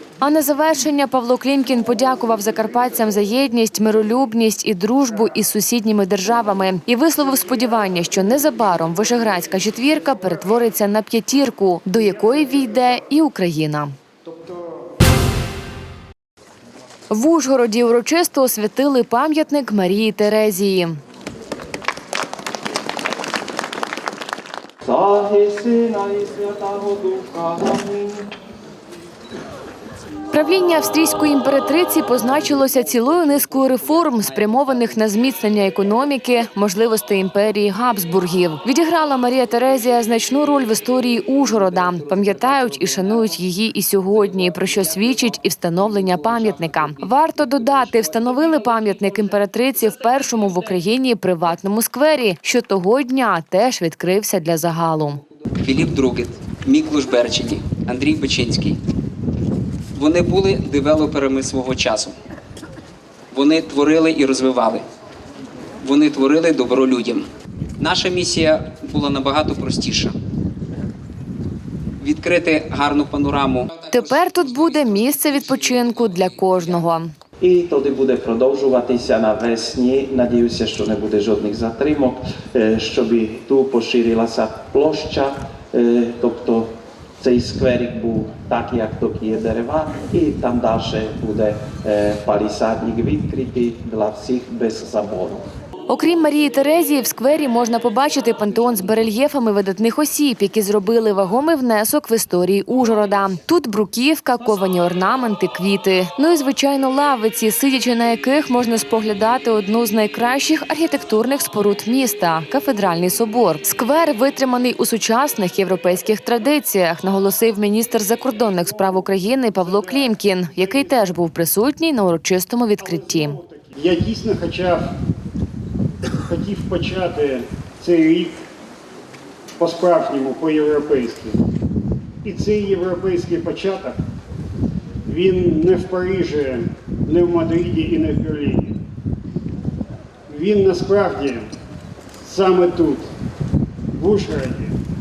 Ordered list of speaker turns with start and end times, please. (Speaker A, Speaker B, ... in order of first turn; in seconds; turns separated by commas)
Speaker A: 0.2-13.9, Speaker A: 17.1-21.0, Speaker B: 24.8-28.3, Speaker A: 30.3-55.2, Speaker C: 55.6-58.8, Speaker C: 59.9-62.1, Speaker C: 63.3-64.8, Speaker C: 65.8-67.3, Speaker C: 67.8-70.1, Speaker C: 72.0-74.4, Speaker A: 73.9-77.1, Speaker B: 77.4-95.4, Speaker A: 95.9-123.4, Speaker D: 120.5-121.0, Speaker D: 122.8-124.9, Speaker D: 126.3-128.4, Speaker D: 129.6-131.4, Speaker D: 132.2-134.0, Speaker D: 135.0-138.8, Speaker D: 140.3-141.5, Speaker D: 142.2-143.1, Speaker D: 144.0-144.8